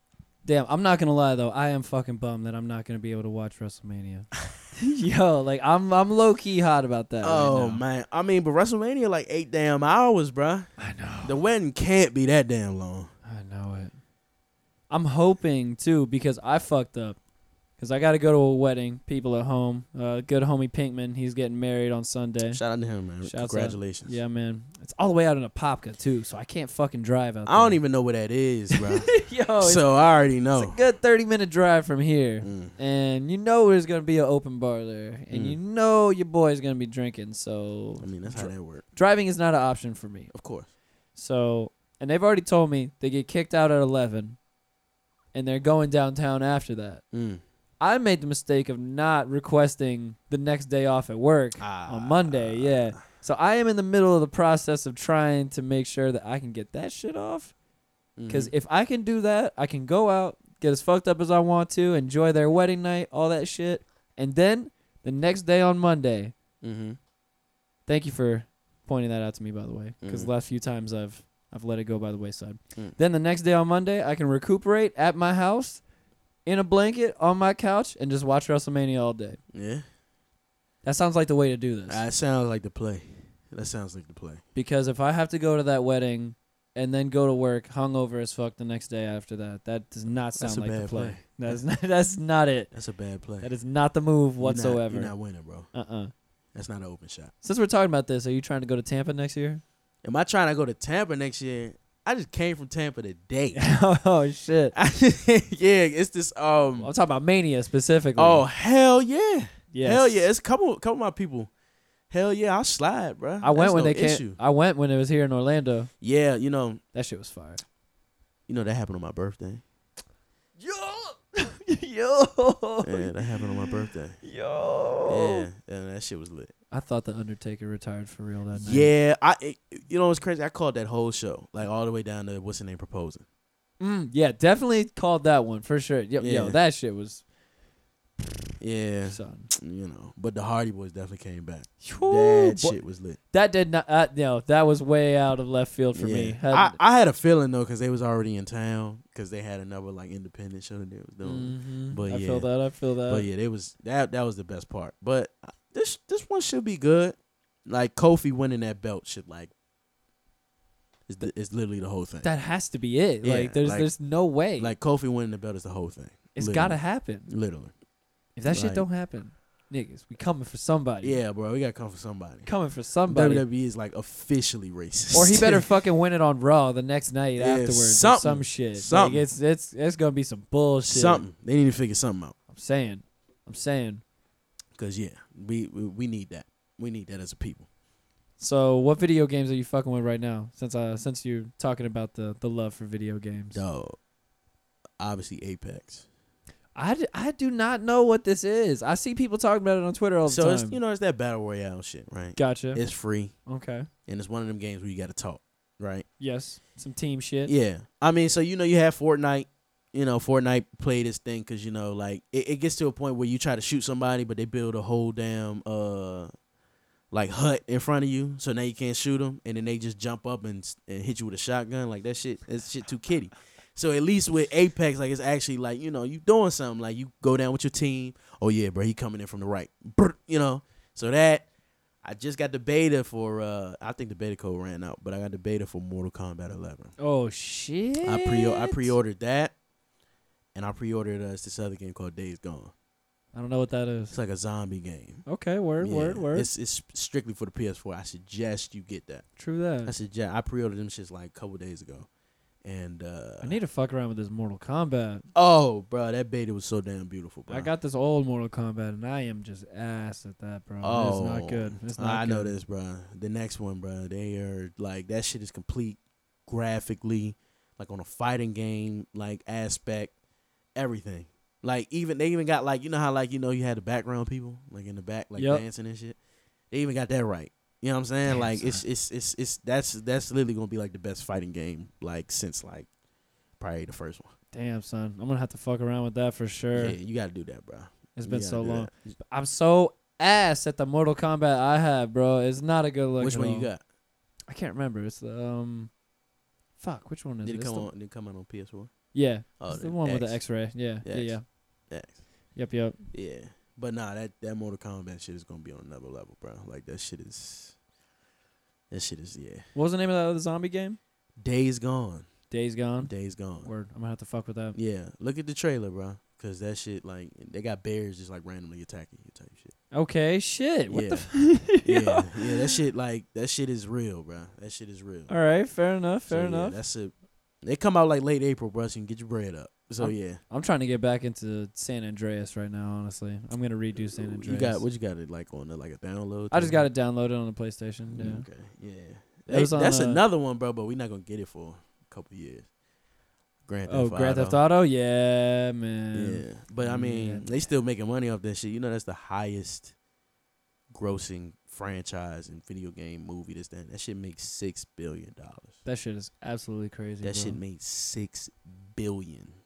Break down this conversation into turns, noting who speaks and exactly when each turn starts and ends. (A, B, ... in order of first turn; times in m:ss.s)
0:00.4-0:07.8 A
0:07.2-0:13.1 B
0:10.8-0:11.4 A
0:13.2-0:14.0 A
0:14.9-0:17.2 A
0:17.8-0:22.6 A
0:22.5-0:24.2 B
0:23.2-0:27.8 A
0:27.5-0:30.8 B
0:28.7-0:29.9 A
0:30.6-0:40.3 A
0:32.4-0:32.7 B
0:35.3-0:35.6 B
0:38.0-0:38.9 B
0:40.3-0:40.7 B
0:41.2-0:44.4 A
0:45.3-0:47.0 A
0:47.1-0:47.4 B
0:47.8-0:57.5 A
0:51.6-0:53.0 B
0:58.2-0:58.5 B
0:58.3-1:06.4 A
1:06.6-1:07.0 B
1:07.9-1:15.8 A
1:10.0-1:10.3 B
1:16.5-1:19.4 A
1:19.5-1:19.8 B
1:20.8-1:22.0 A
1:21.9-1:24.4 B
1:24.6-1:32.7 A
1:30.4-1:31.6 B
1:32.7-1:33.5 B
1:33.4-1:35.2 A
1:34.4-1:35.7 B
1:35.7-1:36.1 A
1:36.5-1:37.3 B
1:37.4-1:39.6 A
1:40.0-1:43.6 B
1:43.6-1:44.8 A
1:44.7-1:46.9 B
1:46.8-1:48.4 A
1:48.2-1:51.5 B
1:49.7-1:50.2 A
1:52.1-1:54.4 B
1:53.4-1:55.9 A
1:56.0-1:56.8 B
1:56.9-1:57.6 A
1:58.5-1:59.6 B
2:00.6-2:03.7 A
2:02.8-2:04.2 B
2:04.2-2:05.5 A
2:05.1-2:06.5 B
2:06.7-2:08.9 A
2:08.6-2:13.2 B
2:13.8-2:17.2 A
2:16.2-2:16.6 B
2:18.6-2:23.2 B
2:19.1-2:19.5 A
2:21.8-2:22.8 A
2:23.3-2:26.8 A
2:26.0-2:32.5 B
2:31.2-2:33.3 A
2:33.1-2:39.5 B
2:41.1-2:42.3 B
2:42.2-2:44.7 A
2:43.2-2:43.9 B
2:44.6-2:47.7 B
2:46.4-2:47.3 A
2:48.4-2:51.2 A
2:48.5-2:48.9 B
2:51.0-2:52.5 B
2:52.5-2:53.4 A
2:53.1-2:55.7 B
2:55.1-3:01.2 A
2:57.4-2:59.2 B
3:00.9-3:02.4 B
3:02.5-3:04.0 A
3:04.8-3:07.7 B
3:08.4-3:13.6 A
3:13.5-3:14.0 B
3:15.0-3:16.0 B
3:16.8-3:20.8 A
3:20.3-3:23.4 B
3:22.4-3:22.8 A
3:23.5-3:23.9 A
3:24.1-3:26.1 B
3:26.2-3:27.5 A
3:27.5-3:36.3 B
3:37.1-3:51.5 B
3:52.0-3:56.9 B
3:57.0-3:59.0 A
3:58.0-3:59.5 B
4:00.6-4:02.7 B
4:03.3-4:04.2 A
4:04.1-4:05.2 B
4:05.3-4:06.5 A
4:05.8-4:09.3 B
4:09.4-4:09.9 A
4:09.8-4:12.1 B
4:12.6-4:13.6 B
4:13.4-4:15.2 A
4:15.4-4:17.7 B
4:17.5-4:22.5 A
4:20.8-4:30.1 B
4:30.8-4:36.2 B
4:35.4-4:35.6 A
4:36.7-4:42.9 B
4:38.3-4:38.8 A
4:43.6-4:44.3 B
4:44.5-4:47.0 A
4:46.8-4:49.2 B
4:48.2-4:53.7 A
4:53.2-4:53.8 B
4:54.5-4:55.9 A
4:56.8-4:57.9 A
4:57.4-4:58.9 B
4:59.1-5:01.4 A
4:59.6-5:00.4 B
5:01.0-5:01.4 B
5:01.9-5:02.2 B
5:02.6-5:03.0 A
5:03.1-5:07.8 B
5:08.9-5:09.7 B
5:09.8-5:11.0 A
5:11.4-5:12.3 B
5:12.5-5:13.1 A
5:13.0-5:13.7 B
5:13.6-5:14.8 A
5:14.8-5:19.7 B
5:19.9-5:22.7 A
5:20.9-5:25.3 B
5:25.3-5:26.8 A
5:26.3-5:30.4 B
5:30.0-5:34.8 A
5:34.1-5:36.9 B
5:36.5-5:38.5 A
5:38.1-5:42.7 B
5:39.5-5:40.2 A
5:43.7-5:44.6 B
5:43.9-5:47.6 A
5:46.1-5:49.9 B
5:50.9-5:55.8 B
5:55.8-5:57.6 A
5:57.2-5:59.6 B